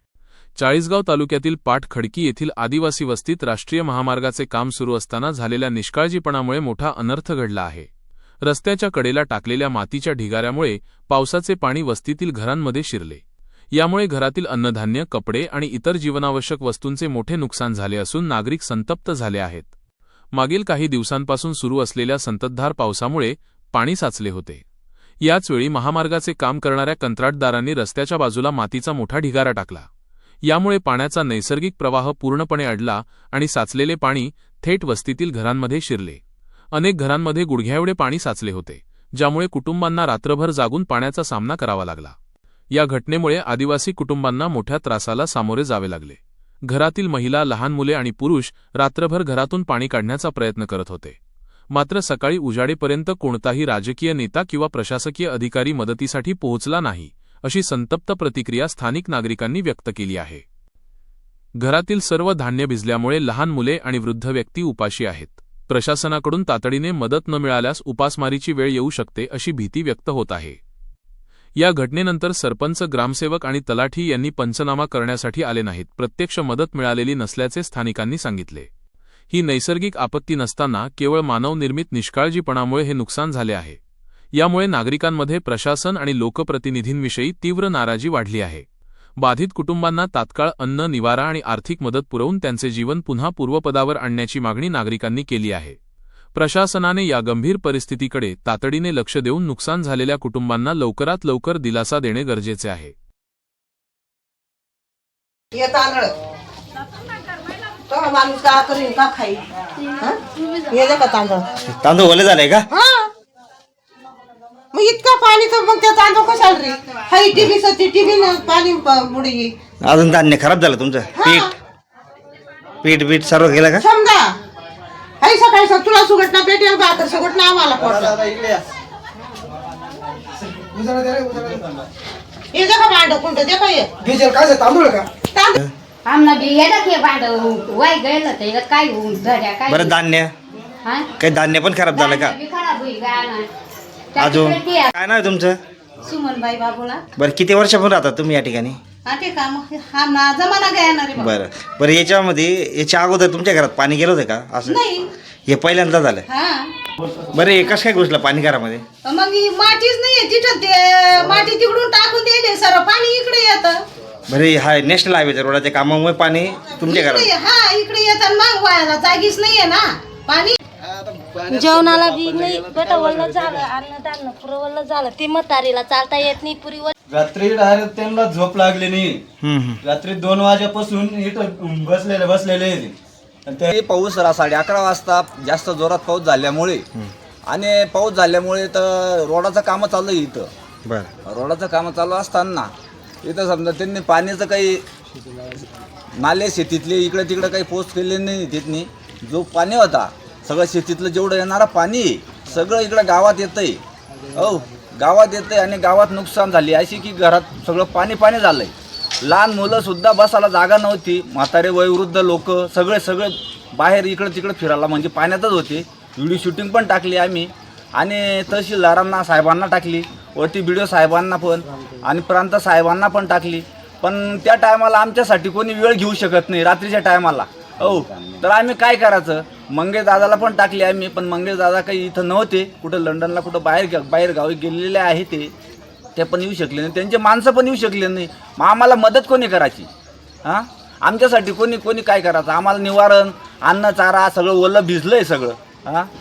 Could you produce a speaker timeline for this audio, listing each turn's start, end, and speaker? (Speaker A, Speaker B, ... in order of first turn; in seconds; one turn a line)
Speaker A: 0.6-7.9
Speaker A: 8.4-13.2
Speaker A: 13.7-19.7
Speaker A: 20.3-24.6
Speaker A: 25.2-29.9
Speaker A: 30.5-36.2
Speaker A: 36.7-42.1
Speaker A: 42.7-51.2
Speaker A: 51.7-60.4
Speaker A: 61.6-70.6
Speaker A: 71.6-78.7
Speaker A: 79.3-83.8
Speaker A: 84.4-88.7
Speaker A: 89.2-95.8
Speaker A: 96.3-102.9
Speaker B: 105.5-106.1
Speaker B: 107.9-109.4
Speaker B: 110.0-111.5
Speaker C: 111.7-112.7
Speaker B: 112.7-113.1
Speaker B: 114.7-119.5
Speaker C: 119.8-121.5
Speaker B: 121.2-121.5
Speaker C: 122.8-123.8
Speaker B: 123.8-124.3
Speaker B: 125.2-128.3
Speaker B: 132.5-133.9
Speaker B: 135.1-135.6
Speaker D: 136.1-139.9
Speaker C: 139.7-140.3
Speaker D: 140.8-141.1
Speaker C: 141.2-142.4
Speaker D: 141.9-143.5
Speaker D: 144.2-144.9
Speaker C: 144.2-145.6
Speaker B: 146.0-147.0
Speaker C: 147.2-148.8
Speaker B: 149.1-151.3
Speaker C: 151.2-154.8
Speaker B: 154.6-155.1
Speaker C: 155.5-156.2
Speaker B: 156.3-156.7
Speaker E: 157.0-157.4
Speaker C: 157.3-158.8
Speaker B: 159.1-163.8
Speaker C: 164.3-167.3
Speaker B: 166.8-170.6
Speaker F: 171.4-176.9
Speaker E: 171.5-173.5
Speaker E: 177.1-179.3
Speaker C: 179.4-179.8
Speaker E: 179.8-182.9
Speaker E: 183.5-183.7
Speaker G: 183.7-186.8
Speaker G: 187.5-190.5
Speaker G: 191.2-192.7
Speaker G: 193.2-194.8
Speaker G: 196.2-203.8
Speaker G: 204.3-235.5
Speaker G: 236.2-239.9
Speaker G: 240.4-246.1